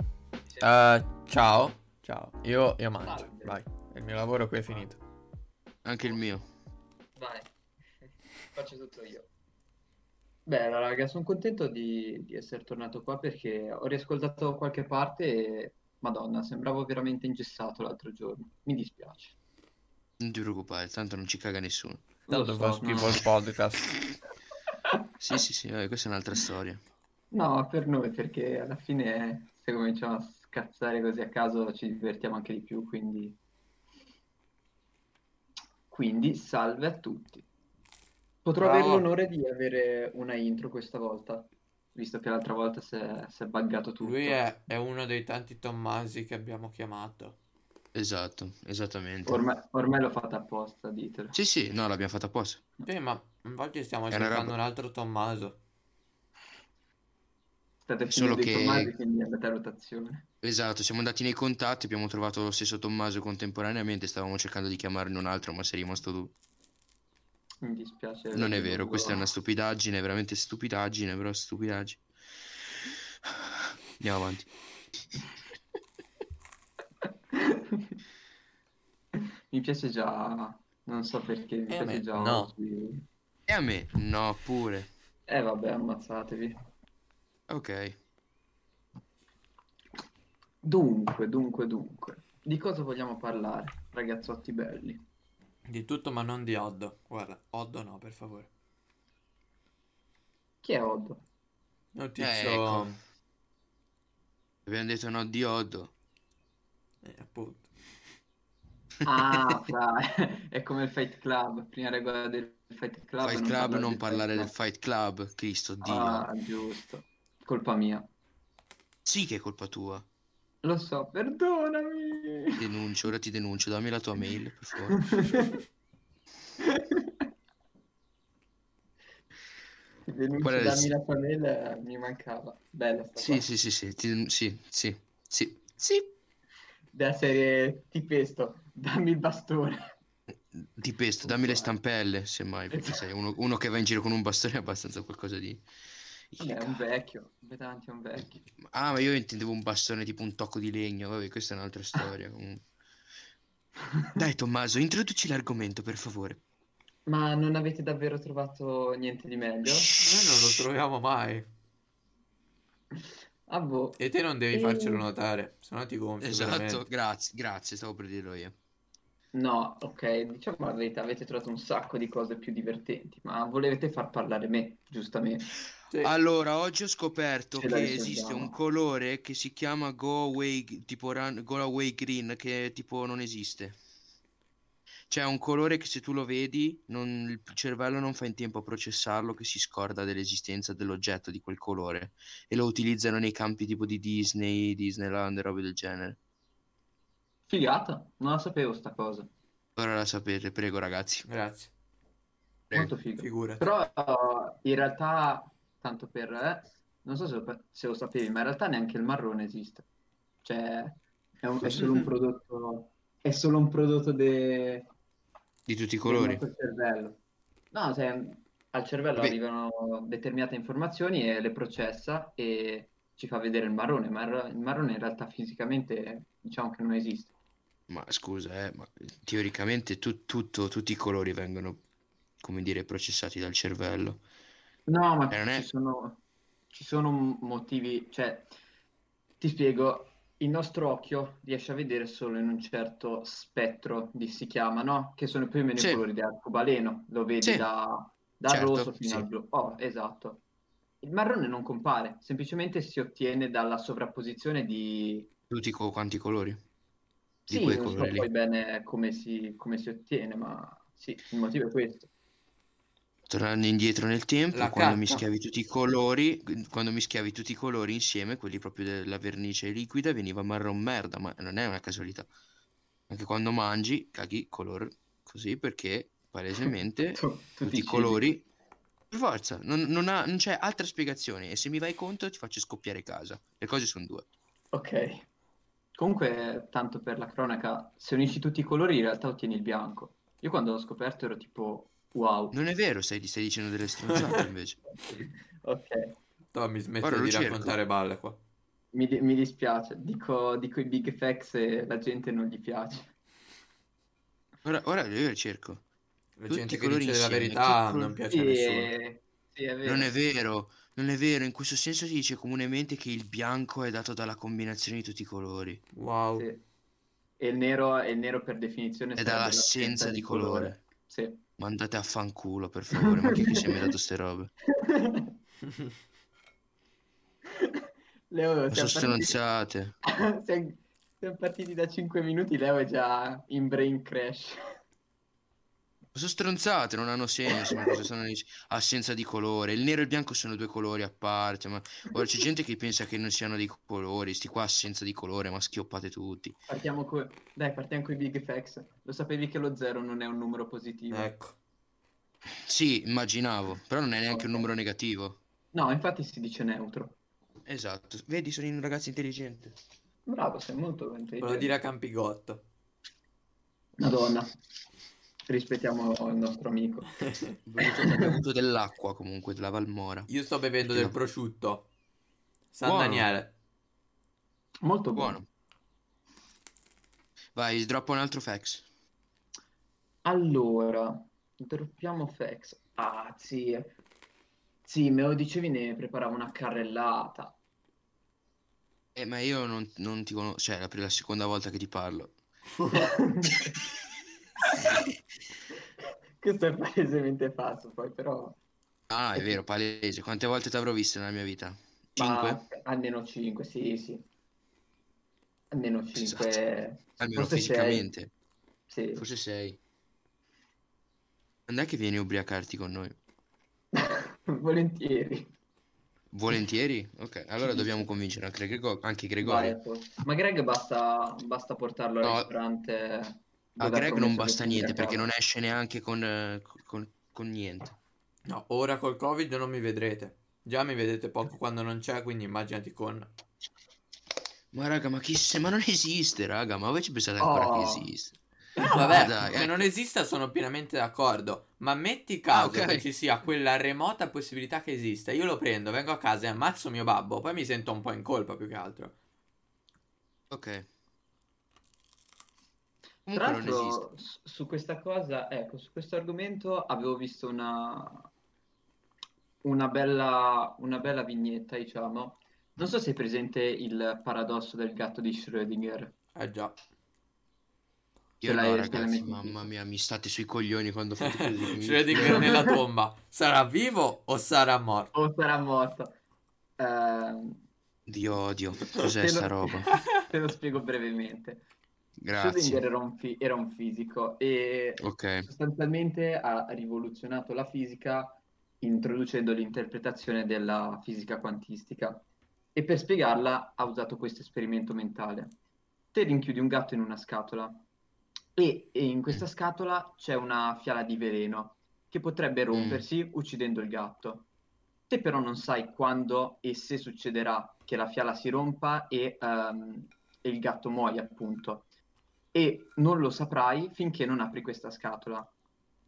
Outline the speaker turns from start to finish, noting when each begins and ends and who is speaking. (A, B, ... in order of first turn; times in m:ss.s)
0:00.6-0:05.0 A
0:03.0-0:03.6 B
0:05.8-0:06.4 C
0:07.2-0:07.5 B
0:08.5-0:09.3 B
0:10.4-0:19.3 B
0:20.2-0:22.0 C
0:22.3-0:23.2 B
0:22.3-0:23.9 A
0:25.2-0:26.8 C
0:27.3-0:33.4 B
0:35.9-0:37.4 B
0:38.4-0:44.4 B
0:38.6-0:39.1 A
0:44.0-0:47.4 A
0:47.9-0:49.4 C
0:49.2-0:51.4 B
0:51.3-0:52.6 C
0:52.8-0:55.6 A
0:54.1-0:54.6 C
0:57.8-1:00.2 B
0:58.1-0:58.9 C
1:00.4-1:06.3 C
1:07.6-1:09.3 B
1:08.3-1:12.0 C
1:13.2-1:14.5 C
1:17.3-1:17.9 B
1:19.2-1:23.0 B
1:21.7-1:22.5 A
1:23.5-1:24.9 C
1:25.3-1:26.6 B
1:27.5-1:28.0 C
1:30.6-1:35.0 B
1:35.7-1:38.5 A
1:40.6-1:41.2 B
1:41.9-1:43.0 A
1:42.2-1:43.0 C
1:44.6-1:45.9 C
1:47.0-1:47.7 A
1:49.0-1:54.5 B
1:49.2-1:49.4 C
1:53.2-1:56.2 C
1:55.8-1:58.1 B
1:59.0-2:00.0 C
2:00.6-2:02.6 B
2:02.6-2:05.3 C
2:04.9-2:05.6 B
2:06.6-2:07.2 B
2:10.1-2:13.5 B
2:10.4-2:10.9 C
2:13.2-2:16.1 C
2:16.9-2:19.9 B
2:20.3-2:25.6 C
2:21.2-2:21.7 B
2:22.7-2:23.0 B
2:26.3-2:26.8 C
2:26.4-2:28.4 B
2:28.6-2:32.6 C
2:34.2-2:36.4 C
2:37.0-2:39.9 B
2:39.6-2:40.7 C
2:40.0-2:41.5 A
2:43.5-2:44.0 B
2:44.0-2:46.8 A
2:44.5-2:45.1 B
2:46.2-2:48.6 C
2:49.3-2:55.5 B
2:56.0-3:03.8 C
2:57.6-2:58.6 B
3:05.1-3:16.2 C
3:17.5-3:19.3 B
3:19.8-3:21.2 C
3:21.3-3:21.7 A
3:22.7-3:29.8 B
3:23.2-3:23.7 A
3:30.4-3:34.9 B
3:35.7-3:36.4 C
3:36.0-3:37.2 B
3:37.7-3:47.3 B
3:47.9-3:51.8 C
3:52.4-3:54.2 C
3:54.9-3:58.5 B
3:55.3-3:55.7 C
3:59.4-4:10.4 B
4:05.8-4:06.0 C
4:07.4-4:07.7 C
4:08.5-4:09.3 C
4:11.0-4:15.3 B
4:15.5-4:16.6 C
4:17.5-4:22.1 B
4:17.5-4:18.3 C
4:23.3-4:32.3 C
4:24.5-4:25.2 A
4:33.1-4:38.5 C
4:36.7-4:38.2 B
4:39.1-4:44.3 C
4:44.7-4:45.3 B
4:46.0-4:52.6 B
4:52.5-4:54.8 C
4:55.1-4:56.1 B
4:56.5-4:58.4 A
4:57.0-4:57.8 C
4:58.9-5:03.1 B
5:04.6-5:05.8 C
5:06.4-5:08.9 A
5:06.5-5:08.2 C
5:08.3-5:10.1 B
5:09.8-5:15.8 C
5:15.9-5:16.5 A
5:16.3-5:16.6 B
5:17.4-5:21.4 B
5:19.2-5:20.8 C
5:21.6-5:24.5 C
5:22.9-5:23.9 B
5:24.7-5:25.3 B
5:27.5-5:29.4 B
5:28.7-5:30.0 C
5:30.0-5:34.6 B
5:36.1-5:46.6 C
5:37.5-5:37.9 B
5:46.7-5:51.3 B
5:51.1-5:51.5 A
5:52.6-5:55.4 C
5:54.3-5:54.7 B
5:55.7-5:57.2 B
5:57.6-5:59.8 C
6:00.2-6:01.7 B
6:01.4-6:02.6 A
6:04.0-6:04.5 B
6:05.5-6:07.1 B
6:07.6-6:10.3 C
6:07.8-6:08.4 B
6:10.3-6:11.9 A
6:10.8-6:11.1 C
6:12.7-6:13.5 A
6:12.8-6:13.3 C
6:14.8-6:15.4 B
6:15.2-6:15.4 C
6:17.5-6:18.8 C
6:20.2-6:23.9 B
6:24.8-6:27.6 B
6:29.1-6:32.4 C
6:32.8-6:33.8 B
6:36.4-6:38.6 B
6:39.1-6:42.6 C
6:39.3-6:39.6 B
6:42.2-6:44.3 B
6:45.7-6:48.1 B
6:46.2-6:46.6 C
6:47.2-6:48.3 C
6:48.9-6:49.2 B
6:49.2-6:49.8 C
6:51.7-6:53.1 C
6:53.9-6:55.5 B
6:56.3-6:59.8 C
6:57.6-6:58.1 B
6:59.4-7:05.2 B
7:02.2-7:02.5 C
7:03.8-7:07.9 C
7:08.5-7:13.3 A
7:14.7-7:18.4 C
7:17.4-7:18.1 B
7:18.8-7:19.3 B
7:18.9-7:19.8 C
7:18.9-7:29.1 A
7:22.5-7:23.1 C
7:30.5-7:30.8 C
7:33.2-7:34.0 C
7:33.3-7:38.3 B
7:39.6-7:46.1 B
7:46.3-7:46.7 A
7:48.4-7:52.6 C
7:48.4-7:49.7 B
7:51.2-7:55.1 A
7:52.3-7:52.8 B
7:55.1-7:56.2 B
7:56.8-7:57.6 B
7:58.1-8:00.0 C
7:59.0-8:01.6 B
8:02.2-8:02.8 C
8:02.3-8:15.6 B
8:05.0-8:05.5 C
8:16.1-8:17.8 B
8:18.6-8:24.5 B
8:22.7-8:23.0 C
8:25.1-8:31.9 B
8:32.5-8:35.5 B